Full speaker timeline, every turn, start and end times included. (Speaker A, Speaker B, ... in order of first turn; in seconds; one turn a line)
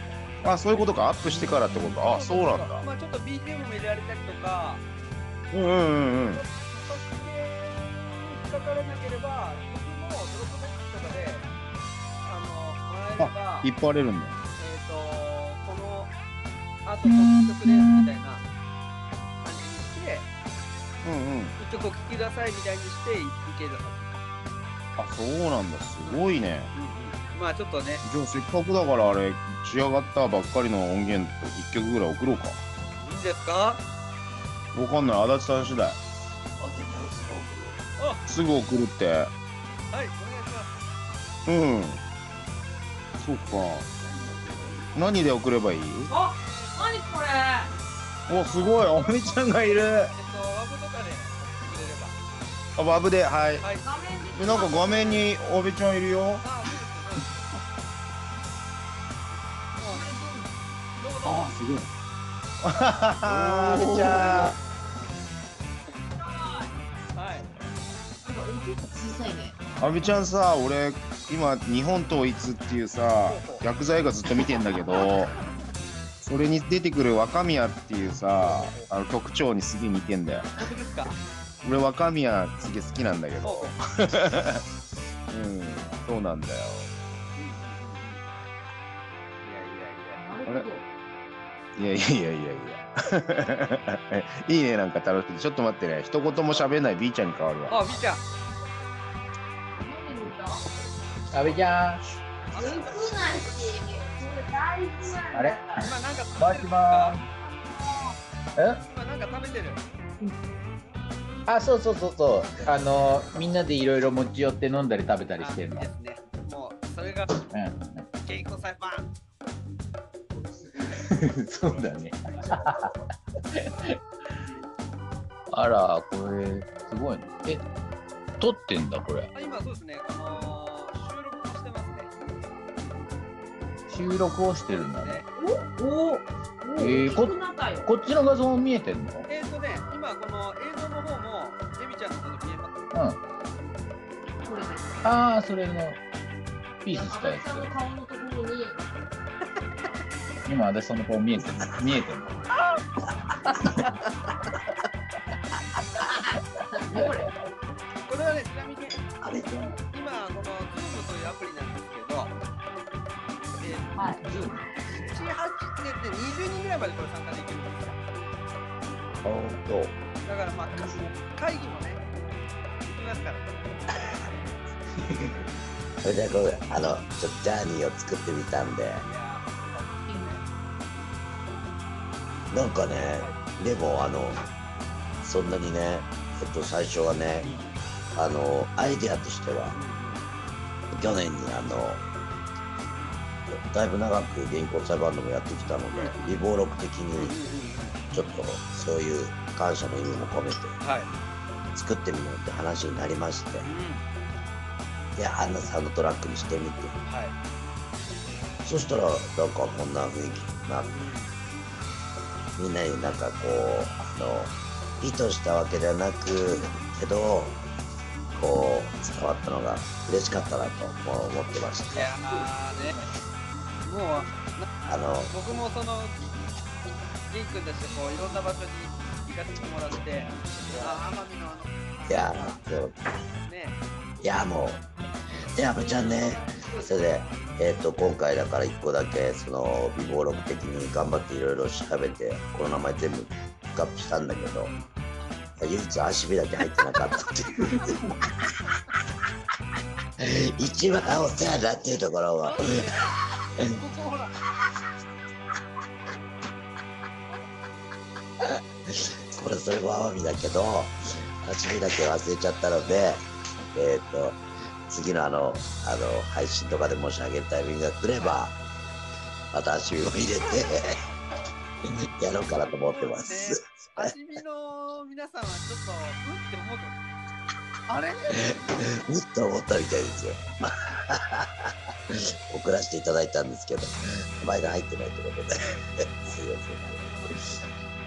Speaker A: 0.4-2.8
Speaker B: 2.0-4.8
Speaker A: 5.5-6.4
Speaker B: 6.4-11.5
Speaker B: 12.2-13.7
Speaker A: 13.2-14.4
Speaker B: 14.6-16.1
Speaker B: 16.9-18.4
Speaker C: 17.5-17.9
Speaker B: 19.4-20.3
Speaker A: 21.0-21.6
Speaker B: 21.6-24.2
Speaker A: 25.0-26.7
Speaker B: 26.1-28.0
Speaker A: 28.0-32.6
Speaker B: 33.0-33.8
Speaker A: 34.7-36.0
Speaker D: 36.6-37.7
Speaker B: 38.0-38.2
Speaker A: 38.3-39.3
Speaker B: 39.9-40.7
Speaker A: 41.5-42.0
Speaker A: 43.2-43.9
Speaker A: 45.0-46.1
Speaker E: 46.1-47.7
Speaker B: 46.4-46.8
Speaker A: 48.3-50.1
Speaker E: 48.4-48.7
Speaker B: 50.1-52.2
Speaker A: 52.8-53.6
Speaker E: 53.8-55.3
Speaker A: 54.4-56.4
Speaker B: 56.4-57.5
Speaker B: 59.8-60.1
Speaker E: 59.8-60.5
Speaker B: 61.0-61.6
Speaker A: 61.2-61.9
Speaker A: 62.6-64.5
Speaker B: 64.4-64.8
Speaker E: 66.4-66.7
Speaker B: 67.2-67.5
Speaker E: 68.2-69.6
Speaker A: 69.8-75.3
Speaker B: 73.3-73.7
Speaker A: 76.2-80.5
Speaker B: 78.4-78.9
Speaker B: 80.6-81.2
Speaker A: 81.6-84.6
Speaker B: 83.4-83.8
Speaker A: 85.3-86.9
Speaker B: 87.4-88.2
Speaker B: 89.4-90.2
Speaker E: 90.1-90.8
Speaker A: 91.8-97.8
Speaker B: 97.7-98.2
Speaker E: 99.8-100.7
Speaker C: 101.3-102.0
Speaker B: 102.5-103.3
Speaker E: 102.5-105.9
Speaker C: 105.3-107.2
Speaker B: 105.8-107.2
Speaker C: 108.6-108.8
Speaker B: 108.8-109.8
Speaker C: 111.5-115.9
Speaker B: 115.4-117.4
Speaker C: 117.4-118.1
Speaker B: 118.2-119.1
Speaker C: 120.5-122.9
Speaker C: 123.5-124.0
Speaker C: 125.5-127.7
Speaker C: 128.4-129.3
Speaker B: 129.3-132.1
Speaker C: 133.9-135.2
Speaker B: 134.7-135.2
Speaker E: 135.4-137.9
Speaker C: 136.8-139.3
Speaker B: 139.3-142.7
Speaker C: 142.9-143.2
Speaker E: 144.4-145.0
Speaker C: 145.0-146.0
Speaker C: 146.8-147.7
Speaker E: 146.9-148.8
Speaker C: 150.5-152.4
Speaker B: 153.4-154.1
Speaker E: 156.7-157.3
Speaker B: 158.1-159.0
Speaker D: 159.2-159.7
Speaker B: 159.9-162.3
Speaker B: 163.6-163.9
Speaker E: 163.9-164.6
Speaker B: 164.9-168.0
Speaker D: 169.2-169.9
Speaker B: 170.2-172.1
Speaker B: 172.8-173.5
Speaker C: 175.0-175.3
Speaker D: 176.0-179.1
Speaker B: 179.0-180.4
Speaker E: 180.1-180.4
Speaker D: 182.5-184.4
Speaker D: 185.2-187.5
Speaker B: 187.4-187.7
Speaker D: 188.2-189.8
Speaker B: 189.7-190.2
Speaker D: 190.9-192.0
Speaker D: 193.5-197.4
Speaker B: 195.9-196.3
Speaker B: 197.2-197.9
Speaker D: 198.1-200.8
Speaker B: 200.8-201.1
Speaker D: 201.7-203.7
Speaker B: 203.6-204.1
Speaker D: 205.2-207.0
Speaker B: 207.1-207.3
Speaker D: 208.6-210.9
Speaker B: 210.8-211.3
Speaker D: 212.6-217.6
Speaker D: 218.3-222.2
Speaker B: 221.9-223.0
Speaker B: 223.8-224.7
Speaker D: 224.9-225.3
Speaker B: 225.3-226.2
Speaker B: 227.3-232.6
Speaker D: 232.1-232.9
Speaker B: 233.4-233.8
Speaker D: 234.2-234.8
Speaker B: 235.4-237.4
Speaker D: 235.5-244.7
Speaker E: 235.9-236.9
Speaker D: 245.6-247.9
Speaker D: 250.2-252.9
Speaker B: 252.4-254.3
Speaker D: 258.9-263.2
Speaker D: 263.7-268.6
Speaker D: 269.5-271.0
Speaker D: 272.0-274.1
Speaker B: 272.9-277.0
Speaker B: 277.9-278.4
Speaker D: 278.4-287.4